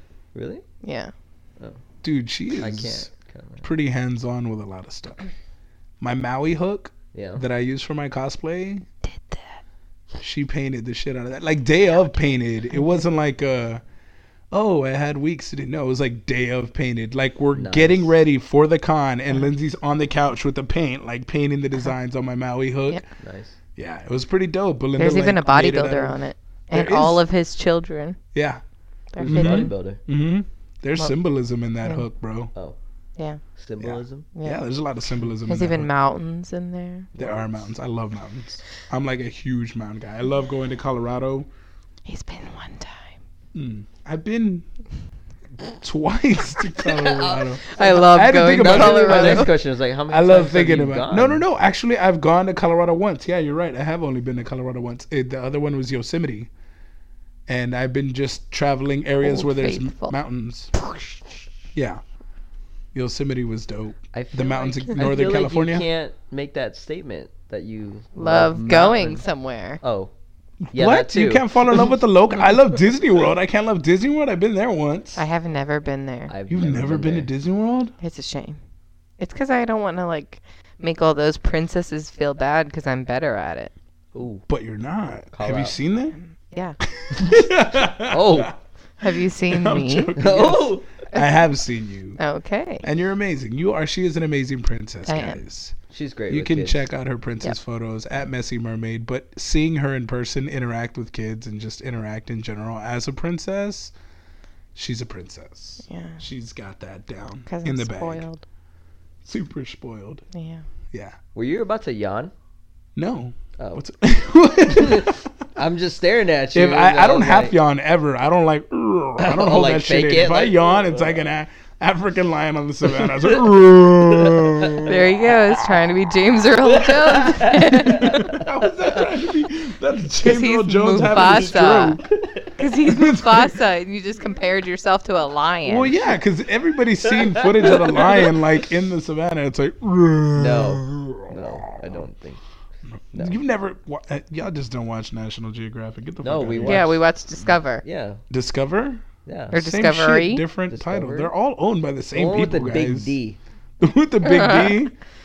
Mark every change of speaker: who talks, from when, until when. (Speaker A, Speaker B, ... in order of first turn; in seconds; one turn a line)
Speaker A: 0.3-0.6
Speaker B: 0.8-1.1
Speaker C: 2.0-3.1
Speaker A: 2.6-3.7
Speaker C: 3.6-5.3
Speaker C: 6.0-8.9
Speaker A: 7.1-7.4
Speaker B: 9.1-9.6
Speaker C: 10.2-13.8
Speaker C: 14.5-23.1
Speaker A: 17.6-18.1
Speaker A: 23.2-23.6
Speaker C: 23.8-26.2
Speaker B: 25.0-28.2
Speaker C: 26.7-27.2
Speaker C: 28.3-28.6
Speaker B: 29.1-29.7
Speaker A: 29.2-30.0
Speaker C: 29.2-32.5
Speaker A: 33.6-34.3
Speaker C: 33.8-35.9
Speaker B: 34.4-34.6
Speaker B: 35.5-37.1
Speaker A: 37.1-37.6
Speaker C: 37.2-41.5
Speaker B: 42.1-43.2
Speaker C: 43.5-44.6
Speaker C: 45.8-49.5
Speaker A: 46.9-51.4
Speaker B: 47.7-49.5
Speaker C: 50.1-56.5
Speaker C: 57.5-60.7
Speaker B: 59.2-60.2
Speaker B: 60.8-61.0
Speaker C: 61.7-62.0
Speaker C: 62.9-65.9
Speaker A: 64.1-69.2
Speaker B: 68.2-69.8
Speaker A: 69.8-70.1
Speaker C: 70.7-75.2
Speaker A: 70.7-72.0
Speaker B: 75.2-76.3
Speaker A: 76.3-77.3
Speaker C: 76.5-77.9
Speaker B: 78.0-78.6
Speaker B: 79.2-83.7
Speaker A: 84.1-84.5
Speaker C: 84.5-86.2
Speaker A: 85.3-85.8
Speaker B: 86.5-86.8
Speaker C: 86.8-92.2
Speaker A: 87.1-88.5
Speaker B: 89.0-90.2
Speaker A: 90.2-90.9
Speaker B: 92.2-92.9
Speaker C: 92.8-95.8
Speaker B: 95.1-95.4
Speaker A: 95.9-96.9
Speaker C: 96.3-103.9
Speaker C: 104.8-108.2
Speaker B: 105.8-106.2
Speaker B: 107.5-108.4
Speaker C: 109.2-110.2
Speaker B: 110.3-110.6
Speaker A: 111.3-112.3
Speaker C: 113.0-115.3
Speaker A: 113.6-113.9
Speaker A: 114.7-117.6
Speaker C: 116.5-125.0
Speaker A: 119.2-121.3
Speaker A: 122.9-123.4
Speaker A: 124.1-125.0
Speaker B: 124.9-128.4
Speaker A: 126.6-129.2
Speaker C: 127.9-132.1
Speaker B: 130.2-132.0
Speaker A: 131.0-132.5
Speaker B: 132.6-136.1
Speaker C: 132.7-133.6
Speaker C: 135.7-142.0
Speaker A: 137.1-138.5
Speaker A: 140.4-142.4
Speaker A: 143.1-143.4
Speaker C: 143.1-146.9
Speaker A: 146.2-148.2
Speaker B: 146.7-147.8
Speaker C: 148.3-153.2
Speaker A: 149.3-149.6
Speaker B: 149.5-150.4
Speaker A: 150.7-151.3
Speaker A: 152.1-153.4
Speaker C: 153.8-154.9
Speaker B: 154.2-154.8